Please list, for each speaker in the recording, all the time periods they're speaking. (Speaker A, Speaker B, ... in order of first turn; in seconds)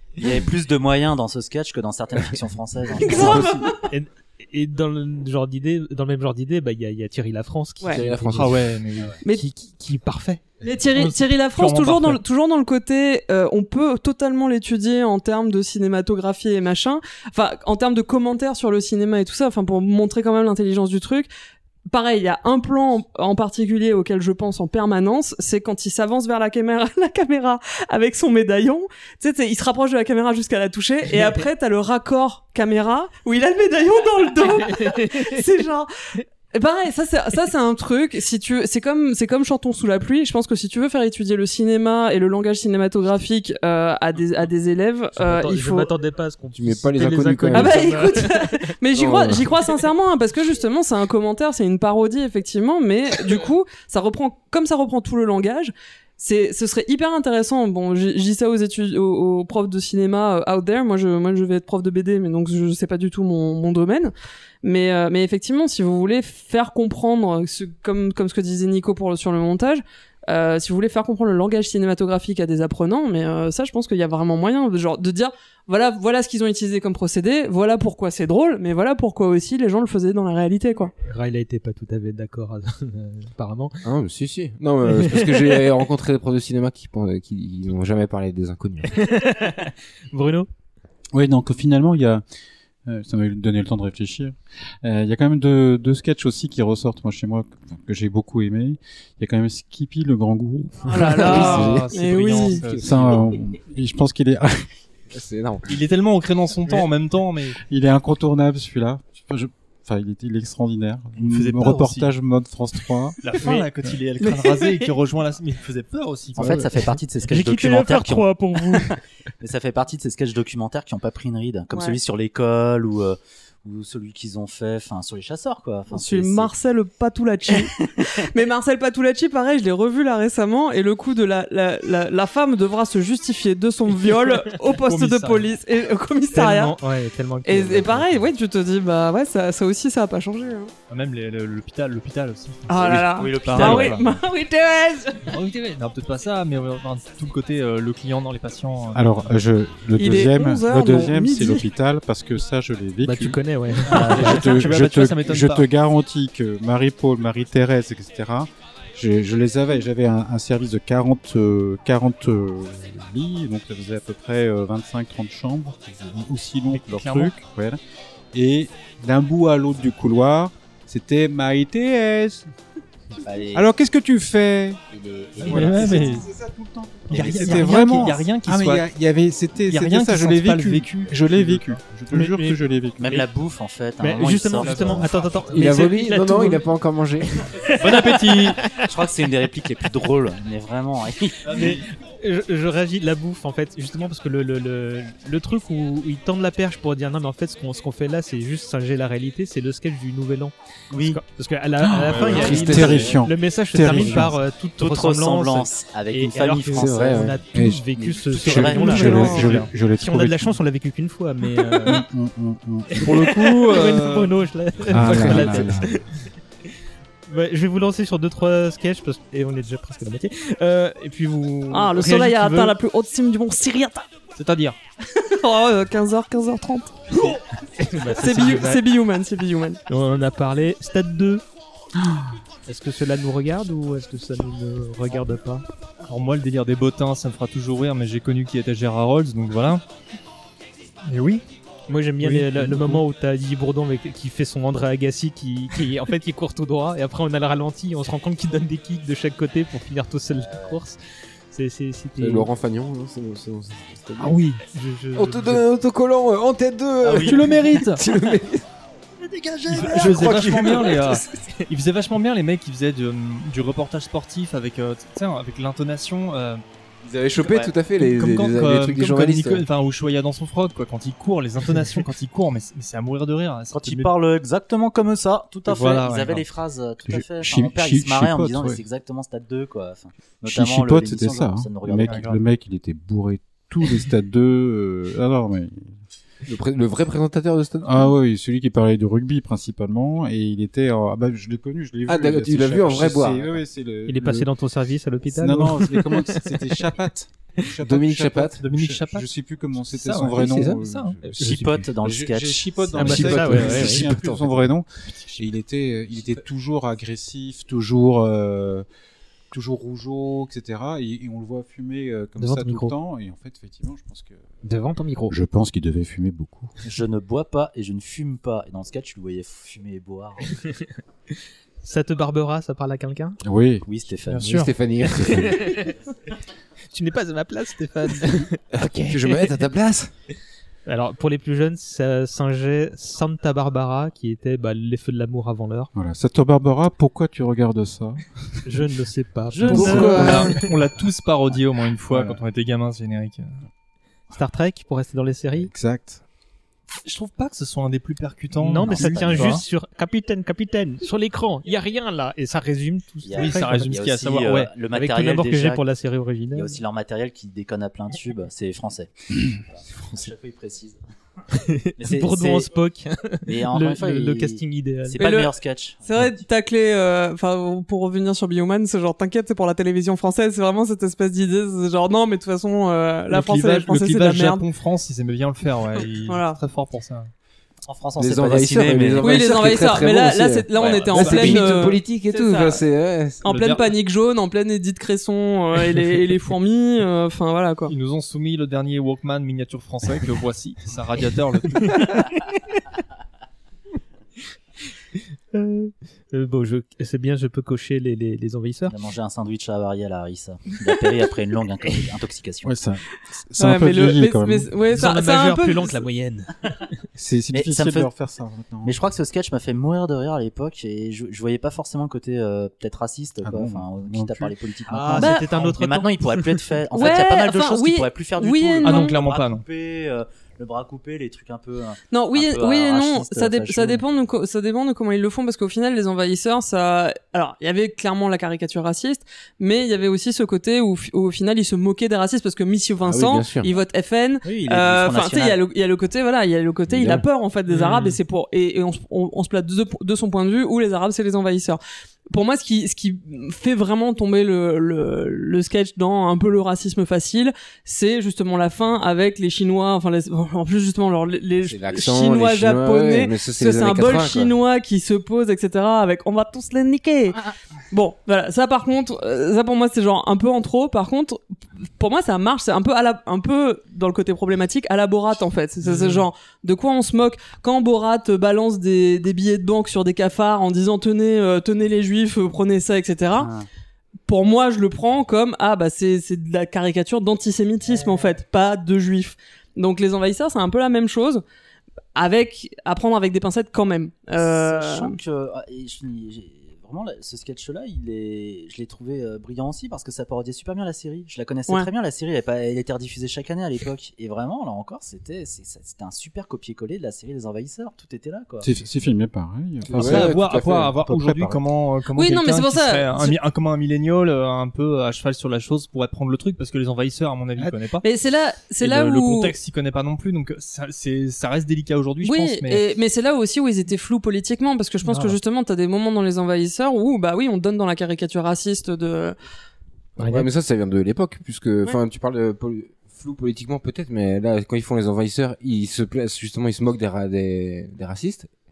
Speaker A: 0.2-3.6, 116.3-126.5, 127.5-128.1, 142.7-144.2, 173.2-173.7, 174.9-176.2, 177.1-178.1, 183.0-185.1, 188.8-191.8, 200.9-201.2, 204.8-207.4, 208.3-209.1, 250.3-250.8, 257.0-257.8, 259.2-261.2, 267.4-267.7, 273.7-282.3, 301.4-303.9, 316.8-320.6, 323.8-324.7, 348.9-349.5, 353.2-355.8, 356.5-361.0, 362.0-362.7, 363.4-366.2, 377.9-379.8, 380.8-381.1, 398.9-402.8, 407.5-408.1, 408.8-424.0, 434.4-435.6, 473.4-473.6, 484.4-498.7
Speaker B: 3.0-3.8, 10.6-21.3, 21.9-35.9, 36.5-45.9, 47.5-80.9, 100.9-102.6, 114.2-114.9, 121.7-122.0, 125.9-136.8, 137.4-140.7, 142.7-145.3, 149.9-151.7, 208.7-209.6, 221.7-224.1, 225.1-227.4, 228.2-229.8, 365.2-365.5, 366.0-374.6, 376.2-376.6, 379.2-382.9, 383.4-387.9, 403.6-406.0, 415.2-415.5, 416.9-419.2, 422.1-441.8, 442.3-461.4, 462.0-473.5, 474.3-481.4, 482.1-485.1, 502.1-503.4, 508.0-509.5, 512.2-519.4
Speaker C: 3.1-3.6, 7.8-8.8, 46.5-48.1, 48.9-49.5, 83.8-89.0, 100.9-101.9, 102.5-103.2, 105.1-105.7, 185.5-187.3, 202.2-203.2, 206.7-207.4, 252.2-254.4, 255.2-258.6, 259.9-260.9, 267.0-269.6, 286.5-288.1, 292.1-293.5, 297.8-298.6, 300.4-300.8, 303.2-304.6, 324.4-325.6, 328.7-330.1, 339.7-340.5, 378.2-383.4, 433.0-433.7, 436.9-437.2, 451.6-454.5, 499.8-500.9, 520.2-528.5
Speaker D: 3.9-8.6, 9.2-10.4, 34.7-35.3, 45.1-48.5, 81.0-83.8, 84.9-85.6, 89.0-90.5, 117.3-119.0, 136.3-138.3, 153.0-154.5, 182.1-182.6, 184.0-186.6, 187.6-188.3, 191.5-200.5, 201.1-212.0, 212.9-216.1, 217.3-222.7, 227.8-228.8, 229.9-231.4, 232.7-235.6, 241.9-251.0, 251.5-252.5, 254.7-255.6, 294.1-296.5, 303.0-304.1, 312.4-312.9, 314.6-315.4, 321.8-323.4, 325.2-326.0, 326.9-329.5, 330.9-335.9, 338.6-340.6, 344.3-345.7, 348.6-353.9, 354.9-356.8, 361.5-365.3, 391.9-392.2, 395.5-398.9, 404.9-406.5, 414.9-416.6, 515.0-515.4, 520.2-520.5
Speaker E: 8.3-9.2, 10.9-12.2, 101.2-103.2, 105.7-107.6, 111.2-112.1, 113.2-116.7, 134.8-135.5, 140.9-144.0, 145.2-149.3, 153.9-155.7, 166.7-167.3, 175.4-176.3, 177.1-178.9, 179.7-181.8, 184.6-185.3, 187.8-188.6, 191.4-191.8, 202.1-202.9, 209.3-209.7, 213.0-214.3, 224.3-224.8, 236.1-239.8, 241.1-241.4, 242.2-243.0, 254.2-254.6, 257.2-258.0, 259.7-266.6, 268.0-274.1, 275.6-276.4, 282.0-282.4, 298.6-299.3, 299.9-301.2, 324.3-324.7, 339.6-343.6, 347.0-349.6, 353.4-354.7, 373.3-377.3, 380.9-381.7, 383.4-383.9, 387.9-392.1, 418.8-419.6, 437.7-438.2, 465.8-466.2, 499.9-508.1, 508.8-512.8
Speaker F: 91.1-92.2, 92.8-101.0, 102.8-104.7, 107.7-113.2, 148.9-167.8, 168.3-172.5, 173.5-174.8, 175.3-183.3, 201.8-204.4, 207.5-210.6, 211.8-213.4, 214.9-216.0, 277.1-278.8, 280.4-286.0, 287.8-294.5, 295.2-308.9, 309.5-314.5, 315.3-316.7, 323.4-323.8, 325.2-325.4, 335.9-338.7, 342.1-342.4, 345.5-346.2, 402.6-404.7, 407.1-409.0, 413.4-414.5, 498.6-501.6